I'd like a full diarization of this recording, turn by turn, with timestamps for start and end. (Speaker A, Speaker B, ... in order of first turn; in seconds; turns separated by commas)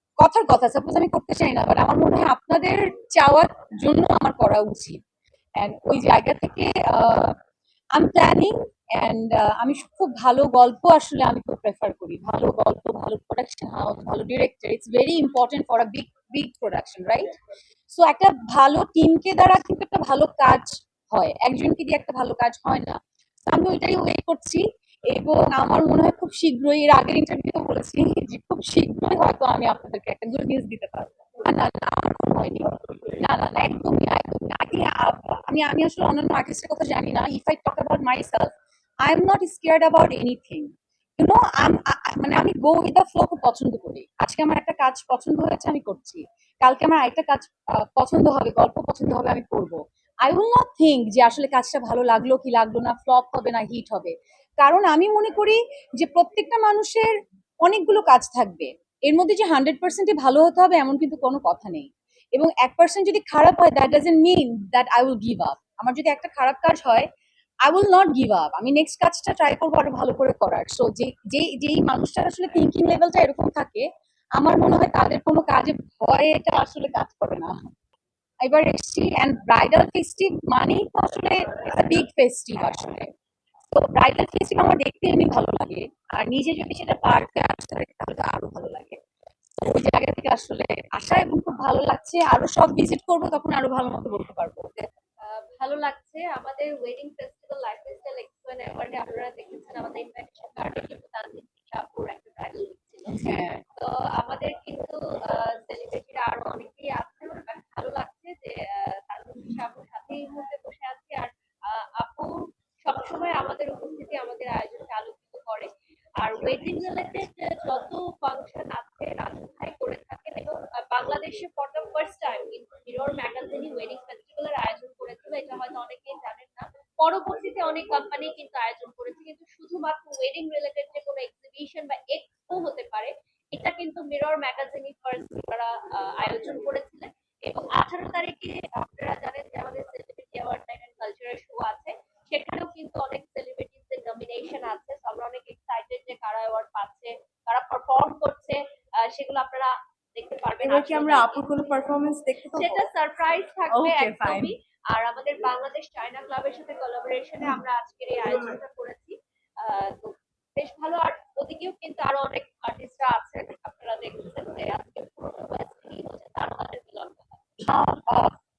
Speaker A: 0.2-5.0, Speaker A: 5.6-7.4, Speaker A: 7.9-17.4, Speaker A: 17.9-57.1, Speaker A: 57.6-67.1, Speaker A: 67.6-73.9, Speaker A: 74.4-77.5, Speaker A: 78.4-83.1, Speaker A: 83.7-89.0, Speaker A: 89.6-94.9, Speaker B: 95.2-103.2, Speaker A: 103.1-103.6, Speaker B: 103.8-151.9, Speaker C: 150.6-152.9, Speaker B: 152.5-167.4, Speaker C: 153.7-154.5, Speaker A: 167.7-168.3